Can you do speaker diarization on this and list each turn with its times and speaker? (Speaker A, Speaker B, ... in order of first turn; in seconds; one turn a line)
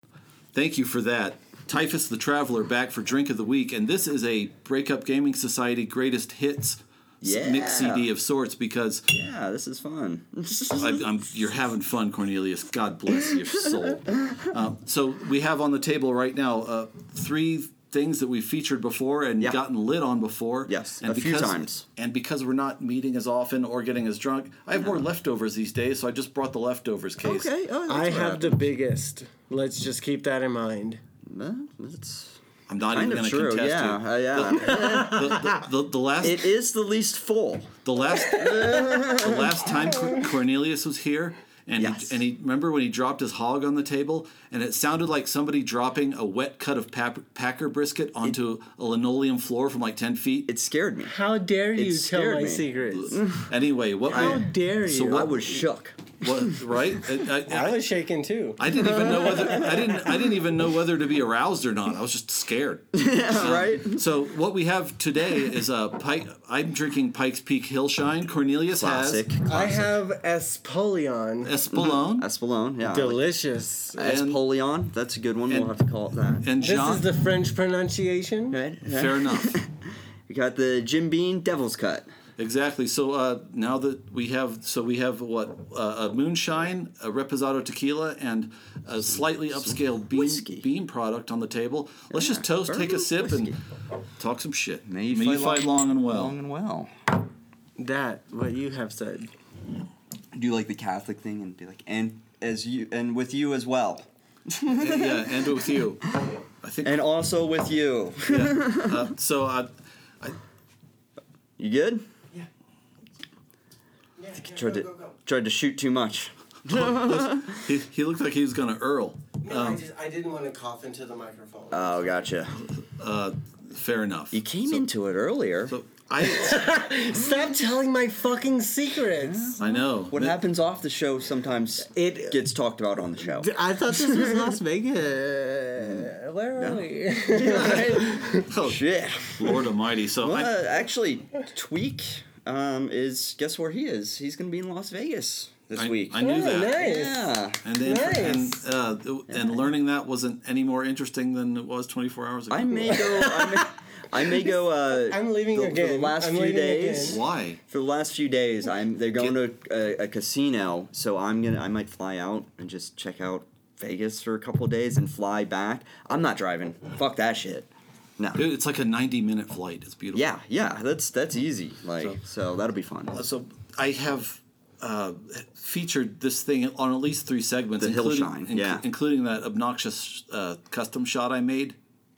Speaker A: 0.5-9.1
Speaker B: 7.2-8.1
Speaker B: 9.1-11.1
Speaker A: 10.8-27.5
Speaker B: 20.7-21.8
Speaker B: 24.8-25.0
Speaker B: 27.2-28.7
Speaker C: 27.9-31.0
Speaker B: 31.3-35.6
Speaker A: 32.7-36.5
Speaker C: 34.7-35.4
Speaker B: 36.2-39.7
Speaker A: 37.8-50.5
Speaker B: 41.8-42.2
Speaker B: 50.5-51.1
Speaker C: 51.1-53.2
Speaker B: 51.8-53.5
Speaker A: 52.9-55.5
Speaker B: 54.1-56.5
Speaker C: 54.1-55.3
Speaker A: 56.1-57.8
Speaker C: 57.5-58.6
Speaker A: 58.6-69.7
Speaker B: 58.7-60.1
Speaker B: 62.9-64.0
Speaker B: 68.7-69.9
Speaker C: 69.5-71.5
Speaker A: 71.5-72.3
Speaker B: 71.7-73.2
Speaker C: 72.8-74.0
Speaker B: 74.0-76.5
Speaker A: 74.0-74.4
Speaker A: 76.4-77.1
Speaker C: 76.6-78.6
Speaker B: 78.5-82.1
Speaker A: 78.9-79.6
Speaker A: 82.4-93.6
Speaker B: 89.5-90.7
Speaker B: 92.1-93.6
Speaker A: 94.2-96.4
Speaker B: 94.9-96.9
Speaker C: 97.8-99.3
Speaker B: 100.3-105.3
Speaker A: 104.7-107.0
Speaker B: 106.8-109.1
Speaker A: 108.3-109.7
Speaker B: 111.6-112.1
Speaker C: 114.2-115.1
Speaker B: 114.5-117.6
Speaker A: 116.7-119.8
Speaker C: 119.4-122.2
Speaker B: 121.7-122.6
Speaker A: 122.8-124.8
Speaker B: 124.3-125.8
Speaker A: 125.7-126.6
Speaker C: 126.3-129.6
Speaker B: 129.2-134.5
Speaker A: 129.6-130.4
Speaker C: 131.9-132.4
Speaker C: 133.4-138.5
Speaker B: 135.8-139.6
Speaker A: 138.4-140.5
Speaker B: 140.2-148.4
Speaker A: 145.8-146.8
Speaker C: 146.2-148.6
Speaker A: 147.6-153.0
Speaker B: 149.3-149.7
Speaker B: 152.5-168.4
Speaker C: 152.9-153.7
Speaker C: 155.1-157.2
Speaker A: 157.0-157.6
Speaker A: 168.4-170.3
Speaker B: 170.1-173.2
Speaker A: 173.2-181.8
Speaker B: 177.8-178.8